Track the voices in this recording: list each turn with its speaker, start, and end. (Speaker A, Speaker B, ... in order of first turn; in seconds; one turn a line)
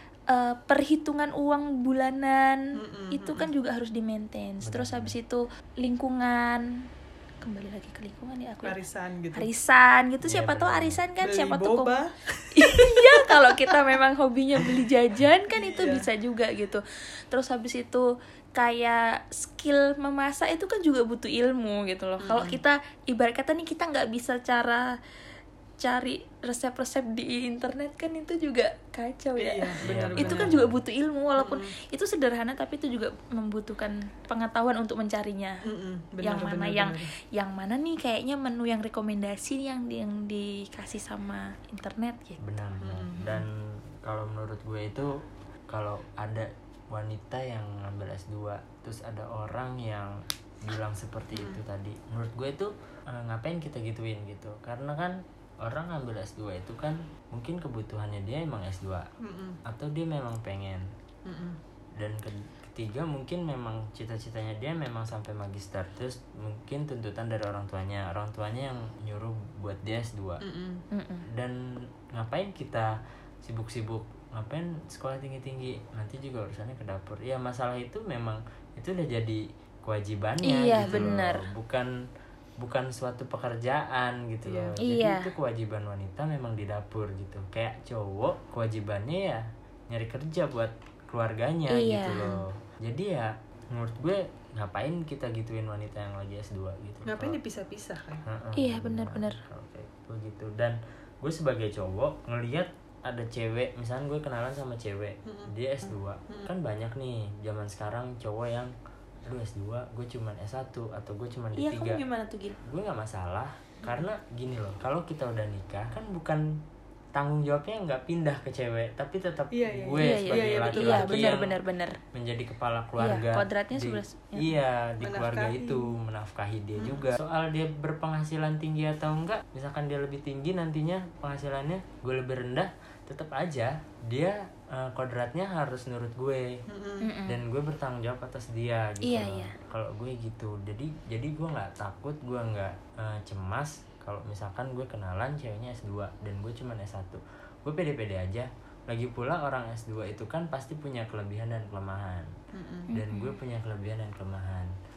Speaker A: 0.3-6.7
Speaker B: 2.8-3.5
Speaker C: 4.6-5.1
Speaker A: 7.4-8.8
Speaker B: 8.6-9.5
Speaker A: 9.3-11.9
Speaker C: 10.2-11.0
Speaker B: 11.2-13.8
Speaker A: 12.5-24.9
Speaker B: 15.5-16.1
Speaker B: 22.2-22.6
Speaker A: 25.8-35.6
Speaker B: 29.4-30.6
Speaker C: 29.8-30.8
Speaker B: 31.4-31.7
Speaker B: 35.6-37.1
Speaker A: 36.2-42.4
Speaker C: 42.4-45.1
Speaker B: 42.8-43.5
Speaker C: 45.7-59.1
Speaker B: 59.2-59.6
Speaker C: 59.6-60.9
Speaker B: 61.2-61.6
Speaker C: 62.0-70.4
Speaker B: 70.4-70.8
Speaker A: 70.9-71.2
Speaker C: 71.3-71.6
Speaker C: 72.1-81.9
Speaker A: 80.4-81.4
Speaker C: 82.6-97.4
Speaker B: 84.4-84.8
Speaker A: 84.8-85.3
Speaker A: 91.7-92.4
Speaker B: 97.0-98.2
Speaker C: 98.2-108.7
Speaker A: 98.5-99.4
Speaker B: 105.2-105.5
Speaker C: 109.2-112.0
Speaker A: 111.5-112.6
Speaker C: 112.6-116.6
Speaker C: 117.1-121.5
Speaker B: 119.5-121.4
Speaker A: 120.0-122.0
Speaker C: 122.1-136.6
Speaker A: 123.0-124.5
Speaker B: 125.0-125.9
Speaker B: 126.8-127.1
Speaker B: 136.7-137.1
Speaker A: 137.0-137.4
Speaker C: 137.3-152.3
Speaker A: 139.0-139.5
Speaker B: 152.5-152.9
Speaker A: 152.9-153.3
Speaker C: 152.9-154.7